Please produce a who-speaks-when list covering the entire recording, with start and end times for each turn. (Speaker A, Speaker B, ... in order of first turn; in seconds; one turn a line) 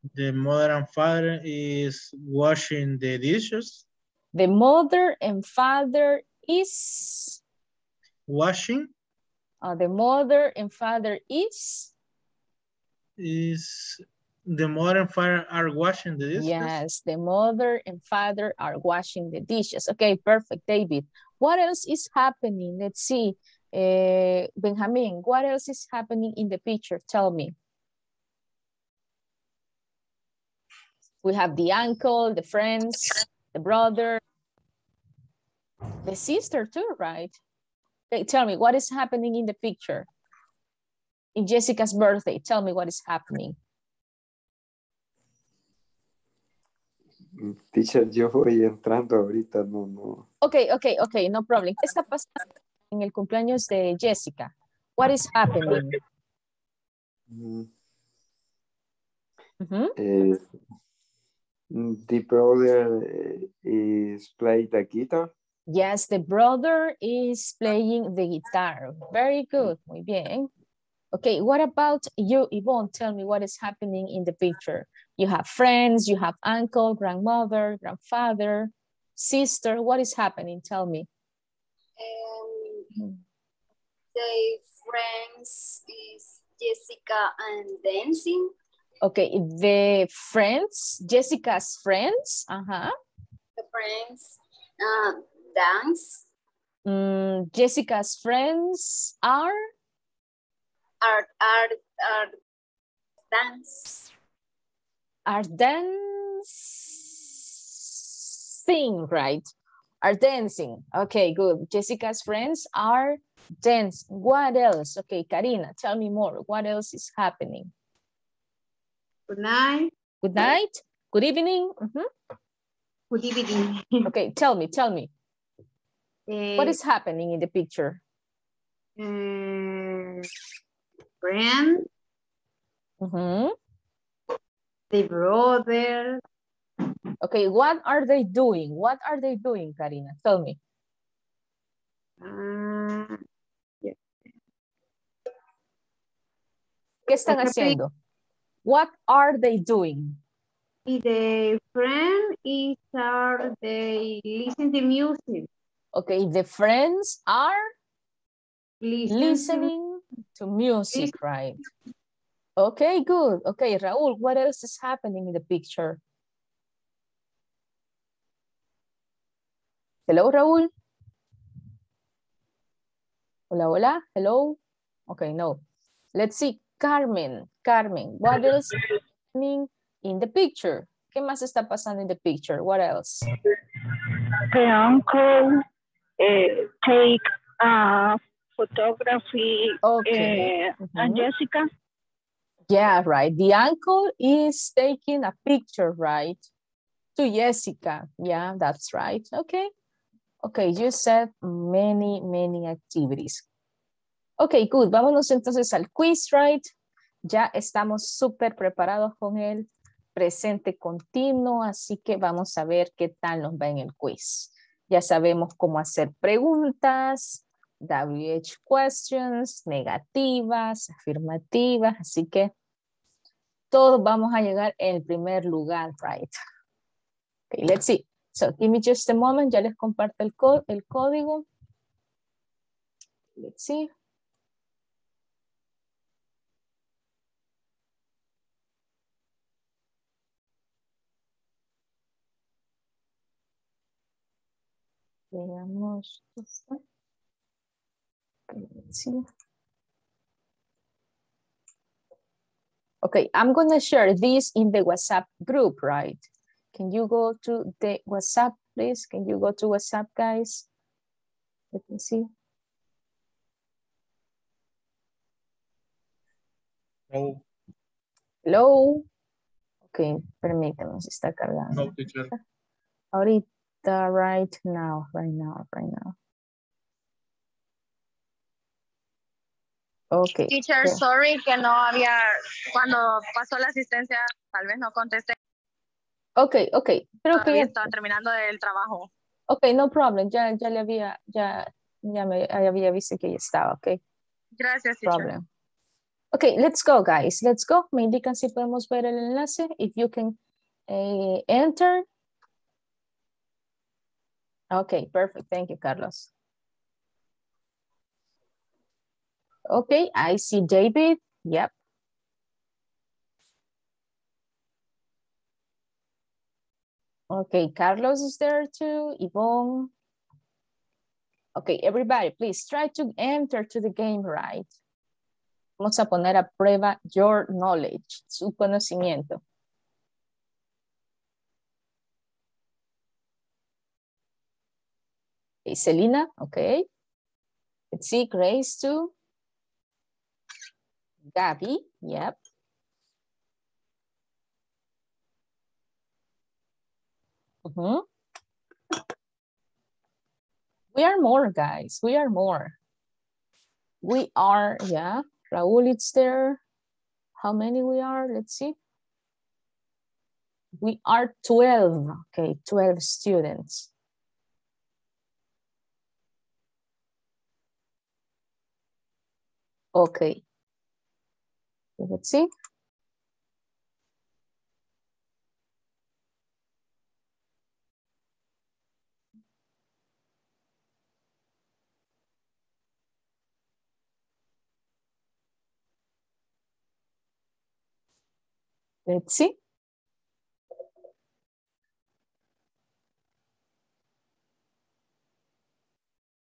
Speaker A: 0.1-3.8
Speaker B: 4.3-7.4
Speaker A: 8.3-8.9
Speaker B: 9.6-11.9
Speaker A: 13.2-16.8
Speaker B: 16.4-27.5
Speaker B: 31.2-34.2
Speaker B: 36.0-37.3
Speaker B: 38.1-40.1
Speaker B: 41.3-43.5
Speaker C: 47.4-50.2
Speaker B: 50.4-52.4
Speaker B: 52.9-55.9
Speaker C: 57.3-57.7
Speaker B: 59.6-59.9
Speaker C: 60.0-60.4
Speaker C: 61.7-65.3
Speaker B: 65.7-70.5
Speaker B: 71.1-81.1
Speaker D: 82.0-82.9
Speaker D: 84.1-88.5
Speaker B: 89.0-92.9
Speaker D: 93.6-96.2
Speaker B: 96.8-99.6
Speaker D: 101.0-102.3
Speaker D: 103.3-104.0
Speaker B: 105.2-109.5
Speaker B: 110.0-117.7
Speaker E: 119.3-119.9
Speaker B: 120.2-122.1
Speaker E: 123.1-123.9
Speaker B: 124.0-125.1
Speaker E: 126.3-126.8
Speaker B: 126.6-128.0
Speaker E: 129.0-130.2
Speaker E: 131.2-131.8
Speaker B: 133.0-133.5
Speaker E: 134.9-136.2
Speaker B: 137.2-140.6
Speaker E: 142.2-143.2
Speaker B: 147.1-147.9
Speaker E: 147.3-147.8
Speaker B: 148.6-150.2
Speaker E: 150.9-155.5
Speaker B: 155.9-157.7
Speaker E: 158.8-159.7
Speaker B: 159.1-161.6
Speaker B: 162.6-166.0
Speaker B: 170.1-170.7
Speaker B: 173.5-174.6
Speaker B: 175.1-175.6
Speaker B: 176.1-178.7
Speaker B: 179.3-183.2
Speaker F: 184.1-185.6
Speaker F: 186.2-191.7
Speaker B: 189.8-191.2
Speaker B: 192.7-196.4
Speaker B: 197.2-199.7
Speaker B: 200.4-203.4
Speaker B: 204.4-206.7
Speaker B: 207.2-222.5
Speaker B: 223.7-226.3
Speaker B: 227.5-231.4
Speaker B: 233.4-233.9
Speaker B: 245.3-246.8
Speaker B: 248.5-249.2
Speaker B: 253.0-260.7
Speaker B: 261.7-262.3
Speaker A: 267.1-267.4
Speaker B: 268.4-269.1
Speaker B: 269.9-272.4
Speaker A: 271.7-272.3
Speaker B: 273.1-276.1
Speaker B: 280.1-281.0
Speaker G: 280.5-285.4
Speaker B: 286.4-287.8
Speaker G: 287.3-289.1
Speaker B: 289.5-294.0
Speaker G: 294.6-295.3
Speaker B: 295.0-295.4
Speaker B: 296.3-300.4
Speaker B: 300.9-302.1
Speaker B: 304.7-306.3
Speaker B: 309.7-311.7
Speaker B: 317.3-319.9
Speaker B: 321.6-324.7
Speaker B: 325.8-329.4
Speaker B: 335.6-336.8
Speaker B: 337.9-339.1
Speaker B: 341.3-342.4
Speaker B: 347.6-348.0
Speaker B: 350.9-352.8
Speaker B: 354.0-356.6
Speaker B: 357.4-358.7
Speaker B: 360.8-363.9
Speaker B: 369.9-370.4
Speaker B: 372.0-372.5
Speaker B: 389.1-389.5